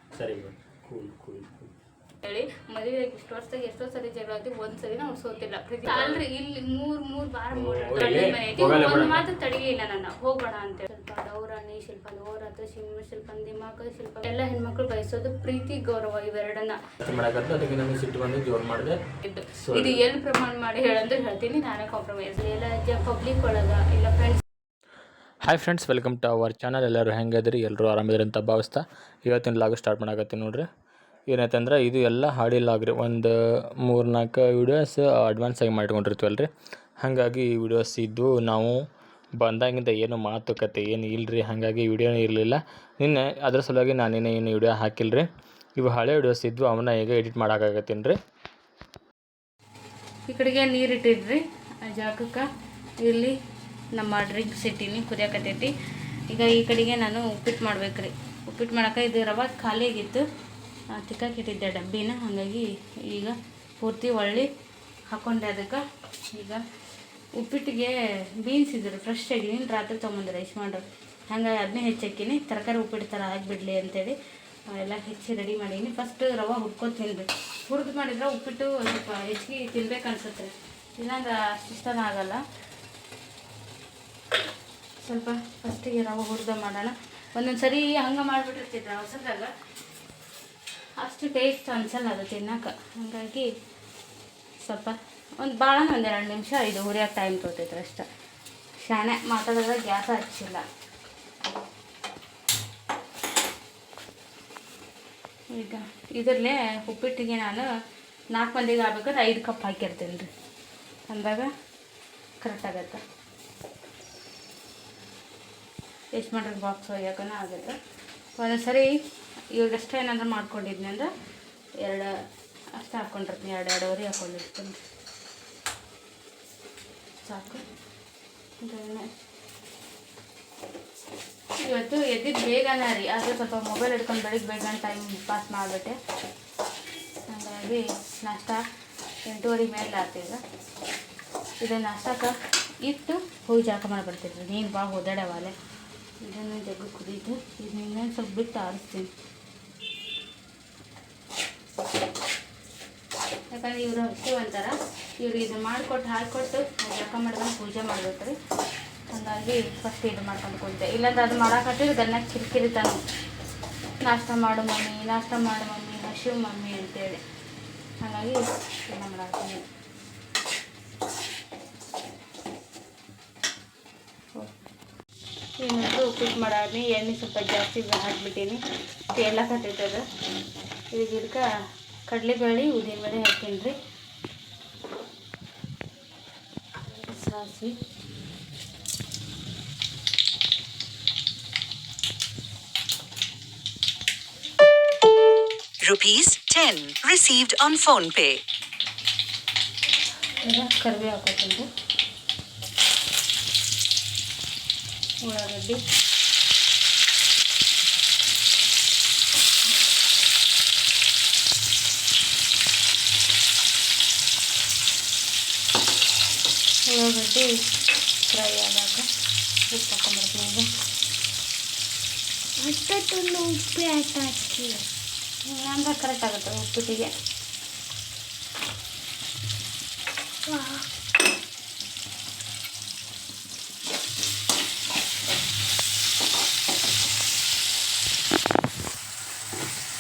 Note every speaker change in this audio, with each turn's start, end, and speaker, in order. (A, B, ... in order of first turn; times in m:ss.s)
0:00.1-0:01.7 A
0:02.2-0:16.8 B
0:05.8-0:06.2 A
0:07.5-0:09.2 A
0:17.0-0:19.0 A
0:19.2-0:24.4 B
0:19.6-0:20.0 A
0:25.4-0:30.7 A
0:31.3-0:36.5 A
0:37.0-0:38.9 A
0:39.4-0:48.2 A
0:50.3-0:52.5 B
0:53.0-0:53.4 B
0:54.0-0:55.7 B
0:56.3-1:00.2 B
1:00.9-1:04.5 B
1:05.1-1:06.6 B
1:07.4-1:14.2 B
1:14.7-1:22.4 B
1:25.0-1:29.5 B
1:31.0-1:33.5 B
1:34.6-1:38.1 B
1:38.8-1:40.6 B
1:45.5-1:47.7 B
1:48.3-1:50.3 B
1:51.1-1:51.5 B
1:52.4-1:53.0 B
1:56.2-1:57.8 B
1:58.4-1:58.9 B
1:59.5-2:01.1 B
2:01.8-2:02.1 B
2:02.8-2:04.8 B
2:07.2-2:07.6 B
2:08.6-2:09.1 B
2:11.6-2:16.0 B
2:17.3-2:18.6 B
2:19.3-2:20.4 B
2:21.6-2:25.5 B
2:26.2-2:29.1 B
2:33.5-2:38.4 B
2:39.1-2:43.0 B
2:44.0-2:47.2 B
2:48.0-2:49.6 B
2:55.6-2:58.6 B
2:59.2-3:00.0 B
3:00.9-3:01.5 B
3:02.1-3:03.8 B
3:06.9-3:07.8 B
3:15.8-3:18.4 C
3:20.4-3:21.7 B
3:25.2-3:25.8 B
3:36.9-3:37.5 B
3:38.3-3:39.1 B
3:39.7-3:40.7 B
3:42.6-3:44.8 D
3:45.5-3:47.1 B
3:50.5-3:50.9 D